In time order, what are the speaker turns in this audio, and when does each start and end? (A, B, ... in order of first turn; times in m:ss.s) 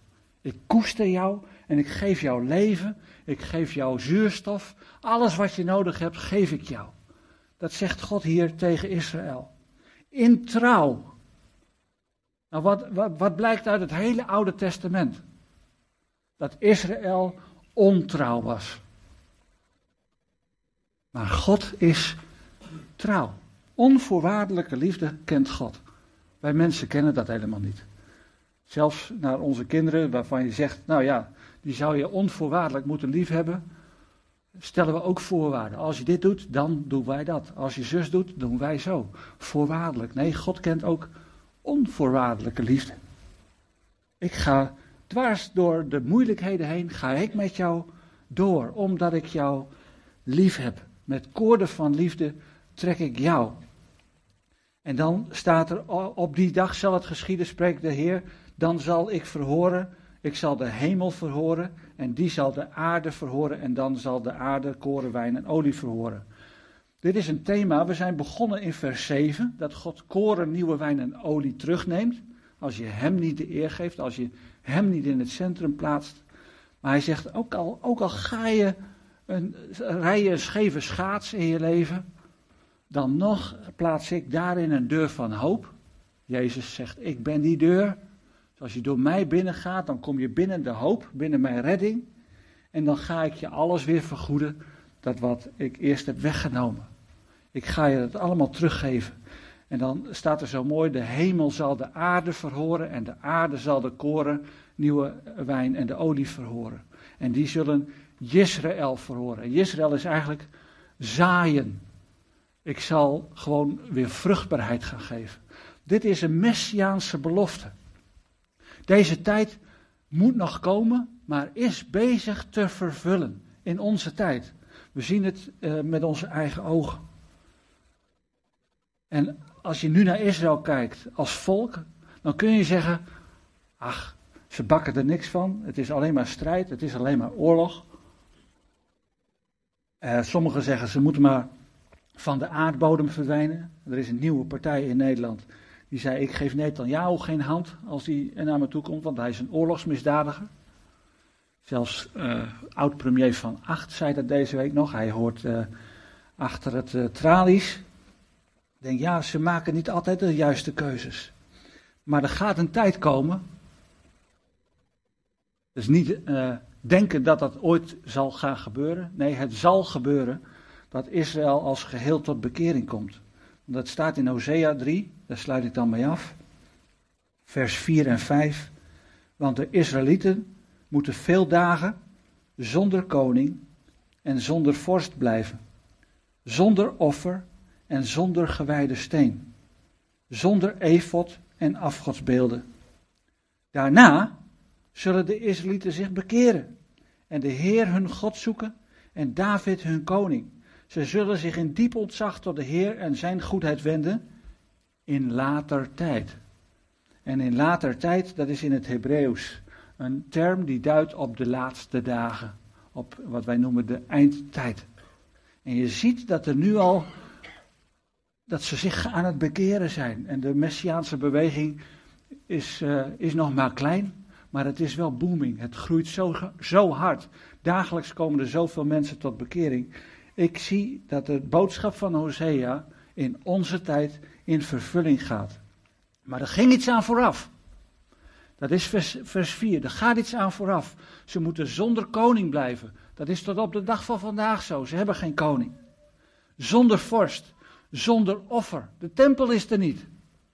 0:00.4-0:06.9 A
0:07.6-0:09.5 A
0:10.1-0:11.1 A
0:12.5-0:15.2 A
0:16.4-0:18.8 A
0:21.1-0:22.2 A
0:23.0-0:25.8 A
0:26.4-0:27.9 A
0:28.7-0:33.6 A
0:34.6-0:41.1 A
0:41.6-0:43.0 A
0:44.2-0:49.7 A
0:50.3-0:53.6 A
0:54.8-1:06.2 A
1:07.0-1:16.2 A
1:16.8-1:18.8 A
1:19.3-1:22.0 A
1:22.9-1:25.7 A
1:26.3-1:28.0 A
1:28.6-1:32.1 A
1:32.7-1:36.9 A
1:37.5-1:39.2 A
1:39.7-1:50.5 A
1:51.0-1:51.8 A
1:52.6-1:57.7 A
1:58.9-1:59.6 A
2:00.1-2:07.0 A
2:09.1-2:13.0 A
2:13.8-2:17.9 A
2:20.0-2:21.5 A
2:22.2-2:30.5 A
2:31.6-2:35.7 A
2:36.4-2:37.8 A
2:38.8-2:41.3 A
2:42.1-2:43.4 A
2:45.8-2:50.4 A
2:50.9-2:56.4 A
2:57.5-2:58.7 A
2:59.4-3:02.0 A
3:02.6-3:03.6 A
3:04.2-3:05.6 A
3:06.5-3:09.5 A
3:10.3-3:12.6 A
3:13.7-3:14.4 A
3:14.9-3:16.7 A
3:17.3-3:24.2 A
3:25.1-3:26.4 A
3:27.3-3:34.9 A
3:35.6-3:37.1 A
3:38.5-3:41.8 A
3:42.5-3:55.6 A
3:56.3-3:57.5 A
3:58.6-4:05.8 A
4:06.6-4:10.1 A